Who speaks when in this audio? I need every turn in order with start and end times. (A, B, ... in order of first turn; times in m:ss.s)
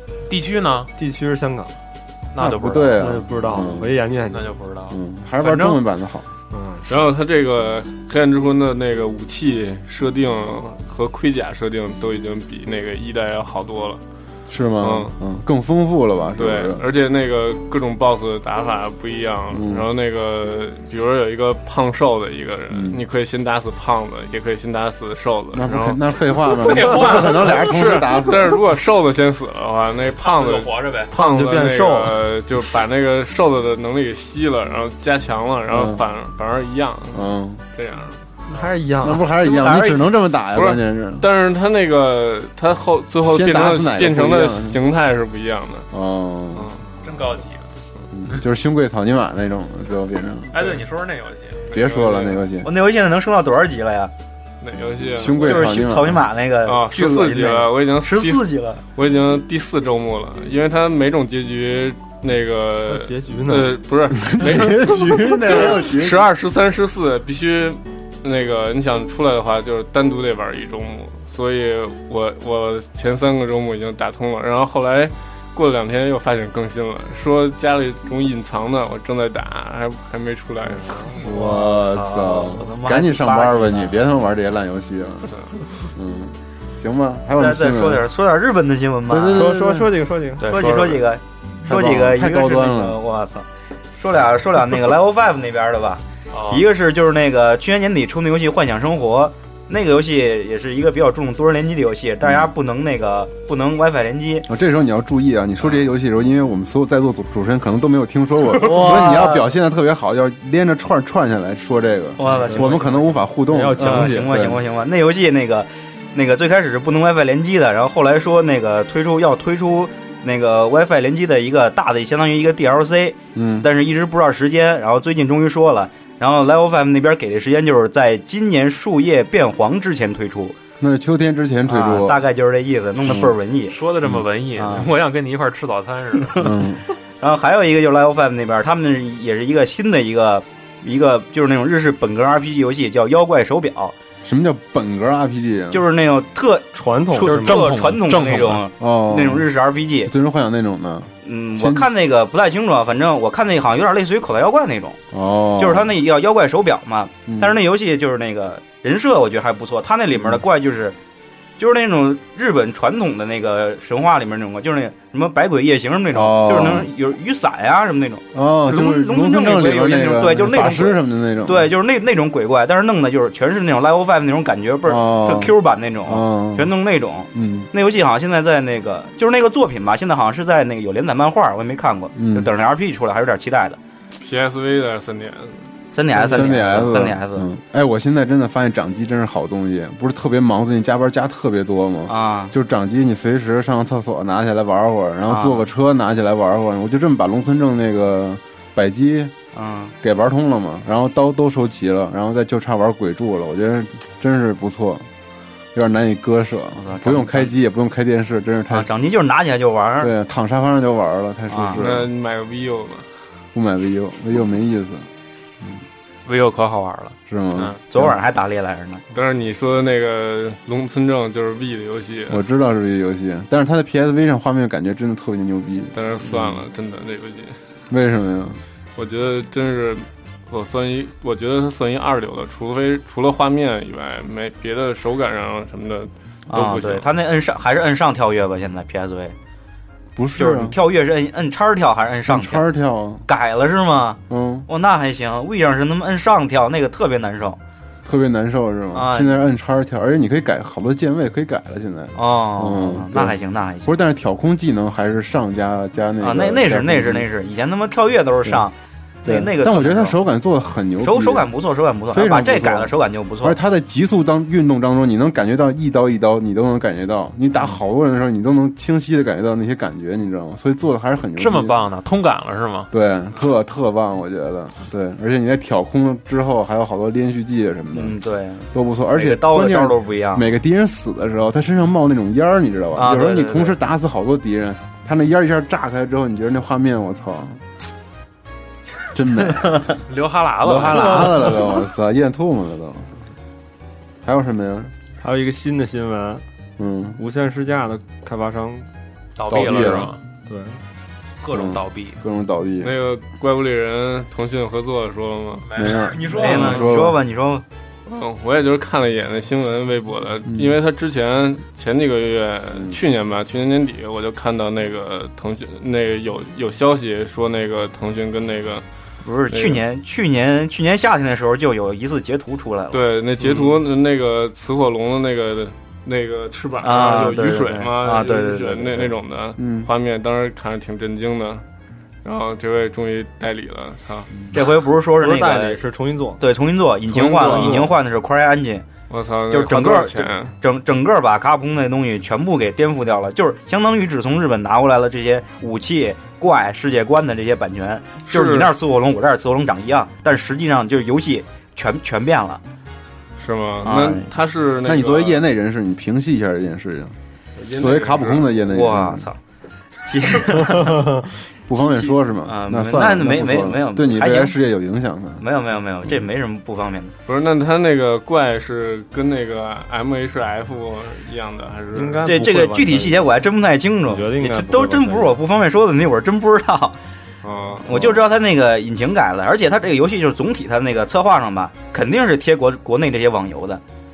0:00.3-0:00.9 A
0:01.0-0:01.8 B
0:02.3-0:03.0 A
0:02.4-0:03.9 C
0:03.0-0:04.5 B
0:04.3-0:05.8 A
0:04.9-0:06.3 C
0:06.5-0:07.0 B
0:06.9-0:14.0 D
0:14.5-0:16.8 C
0:14.8-0:15.1 D
0:16.4-0:26.0 D
0:19.5-0:19.9 C
0:22.7-0:23.0 C
0:25.5-0:28.6 C
0:26.6-0:38.2 D
0:26.6-0:27.6 A
0:30.2-0:31.1 A
0:31.1-0:32.2 B
0:35.7-0:36.0 C
0:37.1-0:37.6 C
0:38.5-0:39.2 B
0:39.0-0:41.3 C
0:39.6-0:39.9 D
0:40.5-0:45.9 D
0:43.2-0:44.8 C
0:45.9-0:46.7 C
0:46.5-0:46.8 D
0:47.0-0:47.6 A
0:48.1-0:50.7 C
0:50.5-0:51.6 A
0:51.7-0:52.4 D
0:51.7-0:52.7 C
0:52.6-0:54.1 E
0:54.6-0:55.8 D
0:55.1-0:56.3 C
0:55.4-0:58.8 E
0:56.6-1:21.2 D
1:02.8-1:04.6 B
1:04.2-1:06.3 C
1:20.6-1:21.2 B
1:21.2-1:25.3 C
1:21.3-1:24.0 E
1:25.9-1:28.0 C
1:27.4-1:29.5 E
1:29.1-1:29.9 C
1:29.3-1:30.6 B
1:30.4-1:31.0 A
1:30.5-1:33.4 E
1:31.6-1:33.0 C
1:34.0-1:44.5 E
1:36.3-1:36.6 A
1:42.2-1:42.5 C
1:44.5-1:54.6 C
1:48.6-1:49.5 E
1:52.2-1:53.1 E
1:52.2-1:54.3 B
1:53.8-2:10.6 E
2:03.3-2:03.7 C
2:10.8-2:12.2 C
2:11.7-2:13.8 E
2:13.0-2:13.3 C
2:13.7-2:16.4 A
2:14.6-2:14.9 E
2:16.4-2:16.8 C
2:17.2-2:23.9 E
2:24.2-2:25.8 C
2:25.7-2:30.1 E
2:26.8-2:27.6 B
2:27.2-2:28.6 A
2:28.8-2:29.5 C
2:30.0-2:31.9 C
2:31.2-2:35.0 E
2:35.1-2:35.9 C
2:35.6-2:41.0 E
2:37.3-2:37.6 C
2:40.1-2:40.4 C
2:41.6-3:03.8 E
2:46.1-2:46.9 C
2:48.3-2:51.7 C
2:54.8-2:56.7 C
2:57.3-2:57.7 C
3:02.2-3:02.5 C
3:04.1-3:05.7 D
3:05.9-3:07.5 E
3:06.1-3:19.3 C
3:12.1-3:12.5 E
3:15.3-3:15.7 E
3:19.5-3:19.9 E
3:20.0-3:25.1 C
3:25.7-3:28.9 C
3:26.8-3:27.5 E
3:28.7-3:30.1 E
3:30.0-3:32.1 C
3:31.5-3:31.8 E
3:31.8-3:33.1 D
3:33.5-3:35.1 C
3:36.2-3:37.8 A
3:37.3-3:38.2 C
3:37.9-3:39.0 E
3:39.1-3:42.4 D
3:42.3-3:46.6 C
3:45.9-3:47.6 D
3:47.9-3:48.6 C
3:49.0-3:57.1 D
3:56.5-3:59.3 E
4:00.2-4:00.8 C
4:00.4-4:02.7 E
4:02.3-4:03.2 C
4:03.3-4:07.6 E
4:04.3-4:04.7 C
4:08.0-4:17.3 C
4:08.9-4:09.4 E
4:12.1-4:13.9 E
4:16.2-4:18.7 E
4:19.2-4:20.2 E
4:19.2-4:21.5 C
4:21.0-4:23.6 E
4:22.1-4:31.8 C
4:31.4-4:32.9 A
4:32.9-4:38.2 C
4:37.9-4:40.5 E
4:38.7-4:47.6 C
4:42.9-4:43.8 E
4:49.1-4:49.8 C
4:50.1-4:51.6 A
4:50.6-4:53.1 C
4:54.2-4:54.9 C
4:55.2-4:56.4 B
4:56.8-4:57.2 C
4:57.2-4:58.9 B
4:59.4-5:00.2 A
4:59.5-5:00.1 C
5:00.4-5:00.8 B
5:01.4-5:02.2 A
5:01.5-5:03.0 C
5:02.8-5:05.7 D
5:05.6-5:06.9 A
5:05.8-5:07.2 C
5:06.4-5:07.6 E
5:08.0-5:18.8 D
5:10.5-5:10.8 C
5:12.7-5:13.0 C
5:19.2-5:23.6 E
5:19.5-5:19.8 D
5:22.9-5:31.6 D
5:26.8-5:29.1 E
5:29.6-5:29.9 C
5:32.2-5:34.3 D
5:34.5-5:35.8 E
5:35.2-5:36.4 B
5:36.4-5:38.9 E
5:37.1-5:37.9 B
5:37.1-5:37.9 D
5:39.1-5:40.5 D
5:39.5-5:52.6 E
5:48.3-5:48.7 D
5:53.4-5:55.4 D
5:53.8-5:54.3 E
5:54.8-5:57.2 C
5:57.6-5:58.5 D
5:57.7-5:59.3 C
5:58.6-5:59.4 E
6:00.1-6:01.1 E
6:01.7-6:05.4 C
6:01.7-6:04.6 E
6:05.4-6:07.1 E
6:07.3-6:12.3 D
6:11.9-6:13.3 B
6:12.2-6:17.0 E
6:14.0-6:15.4 B
6:17.4-6:17.9 D
6:17.8-6:23.8 E